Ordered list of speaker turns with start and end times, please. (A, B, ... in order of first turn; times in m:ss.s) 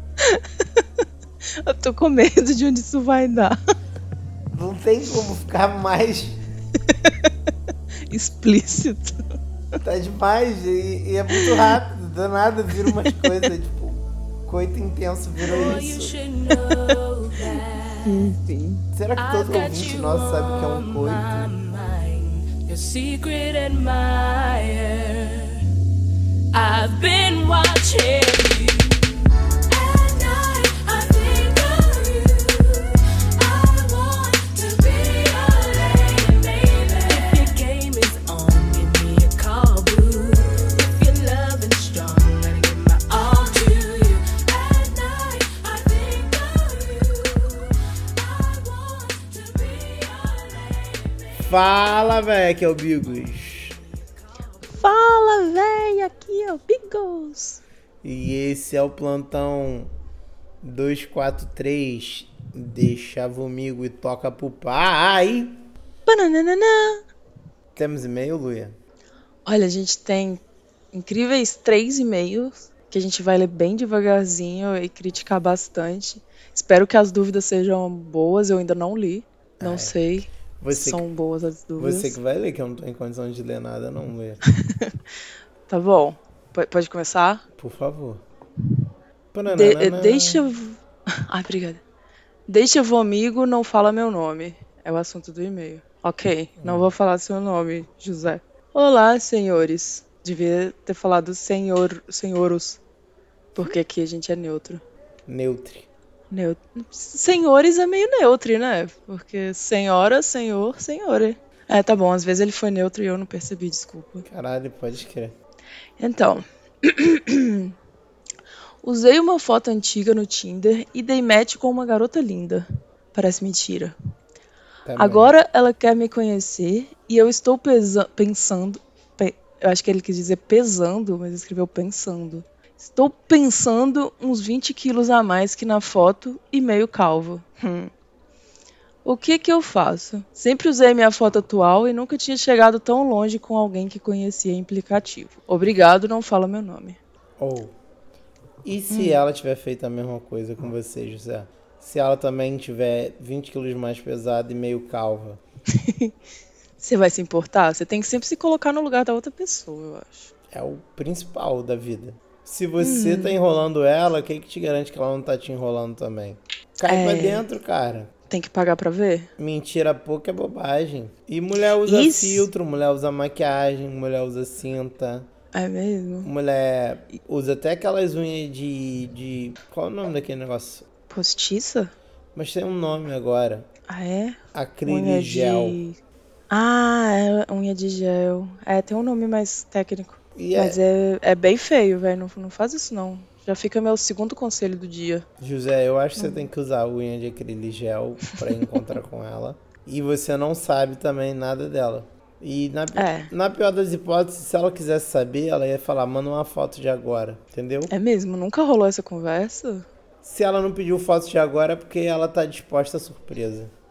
0:00.2-0:00.8 A
0:01.6-0:03.6 A
0:04.5-0:06.4 B
0:06.9-0:07.3 A
0:08.1-0:09.2 A
0:09.8-0:16.2 B
0:11.3-0:11.8 A
0:12.8-0:13.3 A
0:15.4-0:18.3 C
0:18.0-0:18.8 A
0:18.9-0:21.5 B
0:19.2-0:25.6 C
0:26.5-0:28.9 C
0:29.7-0:51.4 C
0:51.4-0:53.8 B
0:54.8-0:57.6 A
0:58.0-0:59.9 B
1:00.6-1:05.5 B
1:06.0-1:07.0 A
1:07.7-1:08.7 B
1:09.4-1:22.2 A
1:19.6-1:19.9 B
1:20.6-1:21.0 B
1:21.8-1:24.4 B
1:24.6-1:24.9 A
1:25.7-1:27.4 A
1:27.6-1:28.2 B
1:29.3-1:30.4 B
1:29.5-1:31.8 A
1:32.5-1:42.8 A
1:36.6-1:36.9 B
1:43.5-1:44.8 A
1:45.3-1:45.9 B
1:46.3-1:54.2 A
1:54.2-1:55.3 B
1:56.0-1:57.7 A
1:58.8-2:03.9 A
2:04.8-2:05.3 B
2:05.0-2:17.9 A
2:19.0-2:27.0 A
2:27.4-2:27.7 B
2:28.6-2:35.4 B
2:28.9-2:29.2 A
2:35.7-2:36.1 A
2:36.8-2:40.3 A
2:40.5-2:48.1 B
2:42.8-2:43.4 A
2:46.8-2:47.5 A
2:48.3-2:49.3 A
2:49.4-2:55.3 B
2:51.8-2:52.5 A
2:55.5-2:56.3 A
2:56.2-3:00.8 B
3:01.1-3:01.9 A
3:02.3-3:03.7 B
3:03.9-3:06.0 A
3:04.5-3:05.8 B
3:06.5-3:15.2 A
3:10.3-3:10.8 B
3:15.4-3:27.9 B
3:22.9-3:23.3 A
3:27.9-3:29.9 A
3:30.2-3:33.7 B